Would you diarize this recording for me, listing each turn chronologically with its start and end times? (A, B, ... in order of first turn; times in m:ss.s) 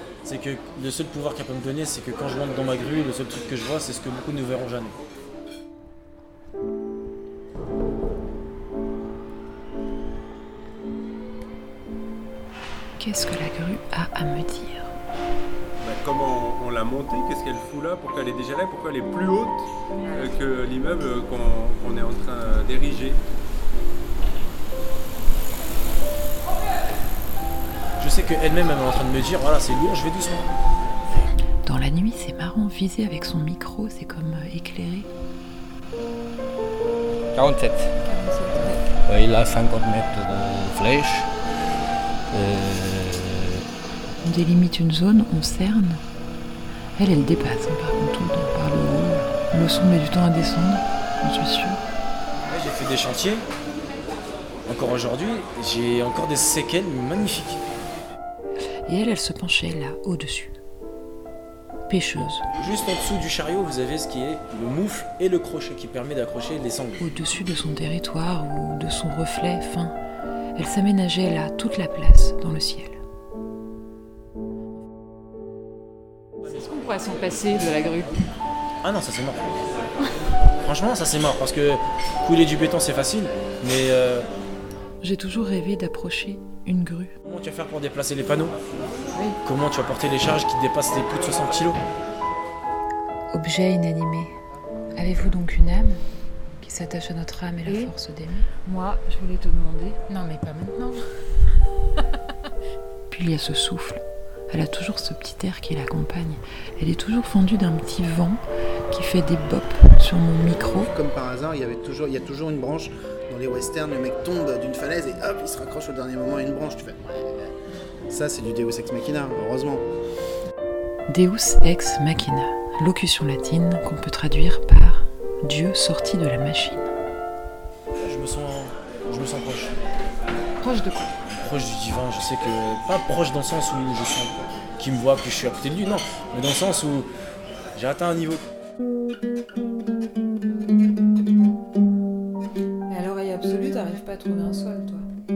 0:00.2-0:05.0 A
0:13.0-0:14.9 B
0:15.8-0:19.5 C
0:20.5-0:22.9 C
0:28.0-0:30.5 A
0:31.6-0:35.1 B
0:37.3-0:37.9 D
0:38.2-0:38.8 E
0:39.1-0:41.3 D
0:42.3-0:43.6 D
0:44.2-0:46.0 B
0:47.0-0:51.8 B
0:52.5-0:53.4 A
0:54.7-0:57.6 A
0:58.9-1:00.6 B
1:01.9-1:02.4 B
1:02.5-1:07.0 A
1:07.0-1:10.0 B
1:10.6-1:13.0 B
1:16.5-1:18.1 E
1:18.8-1:19.6 A
1:20.6-1:24.3 A
1:25.0-1:27.1 B
1:27.2-1:28.6 A
1:29.4-1:31.8 A
1:33.3-1:34.4 B
1:35.0-1:36.0 B
1:36.6-1:38.6 B
1:37.7-1:37.9 E
1:38.6-1:40.1 E
1:40.1-1:41.0 B
1:43.1-1:50.9 B
1:50.8-1:57.5 F
1:58.1-1:59.9 F
2:01.1-2:06.9 B
2:08.0-2:09.7 A
2:10.6-2:11.1 E
2:11.3-2:17.1 A
2:17.8-2:18.4 A
2:22.9-2:25.0 B